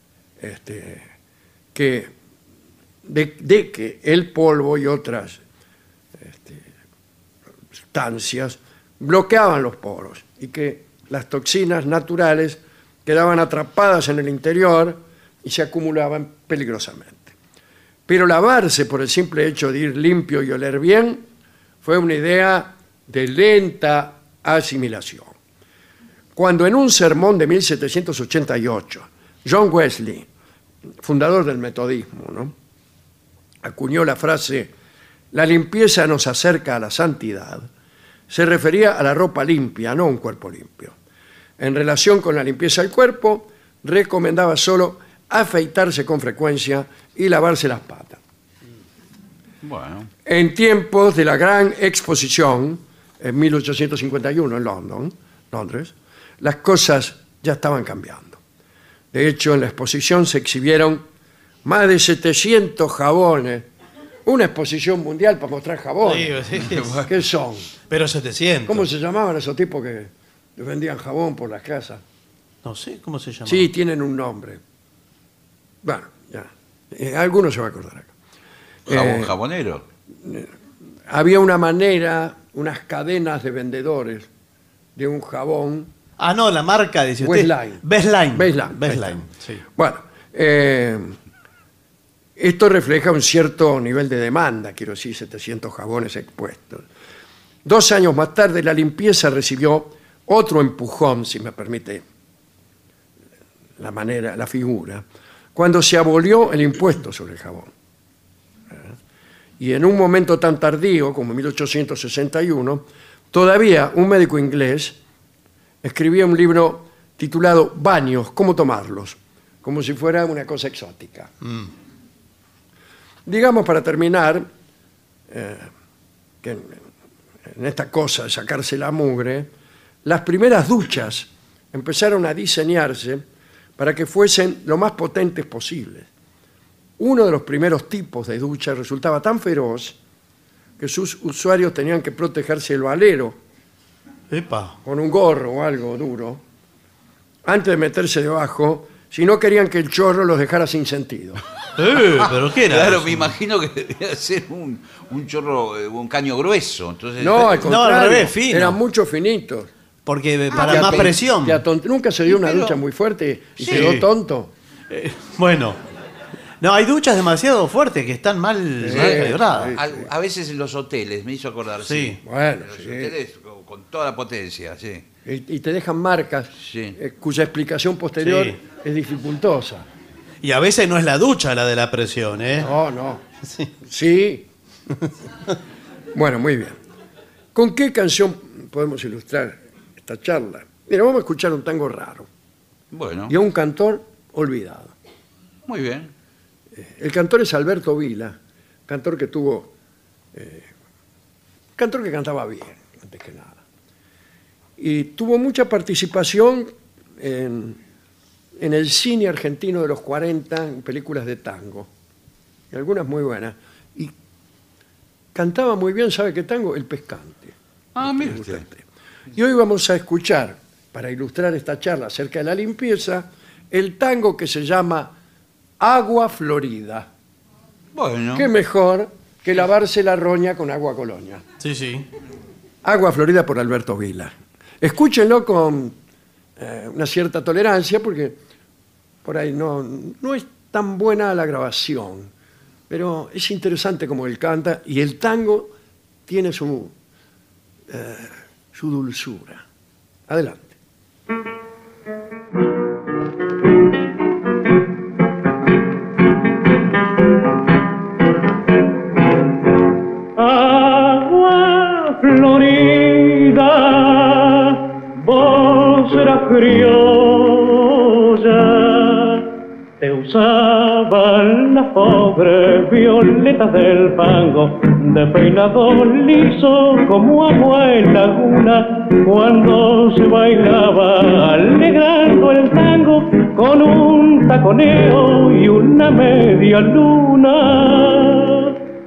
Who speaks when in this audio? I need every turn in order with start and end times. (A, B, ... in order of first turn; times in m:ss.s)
0:00.4-0:01.1 A
0:01.7-0:02.1 A
0:03.0-0:05.4 A
0:06.2-0:06.7 A
0:07.9-0:17.4 A
0:18.1-0:21.2 A
0:21.8-0:25.3 A
0:26.4-0:30.3 A
0:31.0-0:32.5 A
0:33.6-0:34.7 A
0:35.3-0:37.7 A
0:38.3-0:41.0 A
0:41.6-0:48.2 A
0:49.6-0:50.1 B
0:50.2-0:58.4 A
0:59.1-1:01.0 A
1:01.6-1:03.7 A
1:04.3-1:06.4 A
1:06.0-1:07.0 C
1:07.1-1:07.7 A
1:07.9-1:08.9 C
1:08.7-1:12.0 A
1:12.6-1:13.7 C
1:13.5-1:14.6 A
1:15.8-1:18.1 A
1:18.9-1:19.3 A
1:18.9-1:19.8 B
1:20.2-1:20.5 A
1:21.1-1:24.3 A
1:25.0-1:25.9 A
1:26.2-1:29.6 C
1:27.2-1:29.2 A
1:29.7-1:31.2 A
1:32.4-1:36.9 A
1:37.6-1:42.0 A
1:43.8-1:45.0 A
1:45.6-1:47.7 A
1:49.6-1:55.0 A
1:55.8-2:01.3 A
2:03.3-2:04.5 A
2:05.3-2:05.7 A
2:06.4-2:06.8 A
2:07.4-2:09.5 A
2:10.0-2:13.2 A
2:13.8-2:16.1 A
2:17.0-2:20.0 A
2:20.8-2:23.4 A
2:24.3-2:24.8 C
2:24.8-2:26.4 A
2:27.4-2:31.4 A
2:31.8-2:33.3 C
2:32.6-2:37.7 B
2:37.2-2:39.7 A
2:37.6-2:38.8 C
2:40.1-2:41.6 C
2:40.6-2:44.5 A
2:40.7-2:41.1 B
2:42.3-2:42.8 B
2:43.6-2:43.9 B
2:43.7-2:44.1 C
2:44.9-2:45.8 C
2:46.6-2:49.8 C
2:48.8-2:49.9 A
2:48.9-2:55.0 B
2:51.8-2:52.2 C
2:52.2-2:53.1 A
2:55.3-2:59.8 A
2:56.6-2:57.0 B
2:58.2-2:58.6 C
3:00.4-3:02.7 C
3:02.6-3:03.2 A
3:03.4-3:03.7 C
3:03.8-3:04.5 A
3:06.1-3:06.8 A
3:07.6-3:12.3 A
3:12.9-3:13.3 B
3:13.3-3:14.9 A
3:15.7-3:16.1 B
3:16.8-3:19.7 A
3:20.3-3:20.7 A
3:21.8-3:23.6 A
3:24.8-3:27.8 A
3:28.6-3:31.9 A
3:32.7-3:34.1 A
3:35.3-3:38.8 A
3:38.0-3:38.6 B
3:39.4-3:45.1 A
3:45.8-3:47.1 A
3:47.9-3:48.5 B
3:48.4-3:51.4 A
3:51.6-3:52.1 C
3:52.8-3:56.0 A
3:56.6-3:58.4 A
3:59.2-4:02.3 A
4:02.9-4:05.7 A
4:06.3-4:06.9 A
4:07.9-4:09.6 A
4:10.3-4:10.8 A
4:20.4-4:29.5 D
4:30.0-4:48.7 D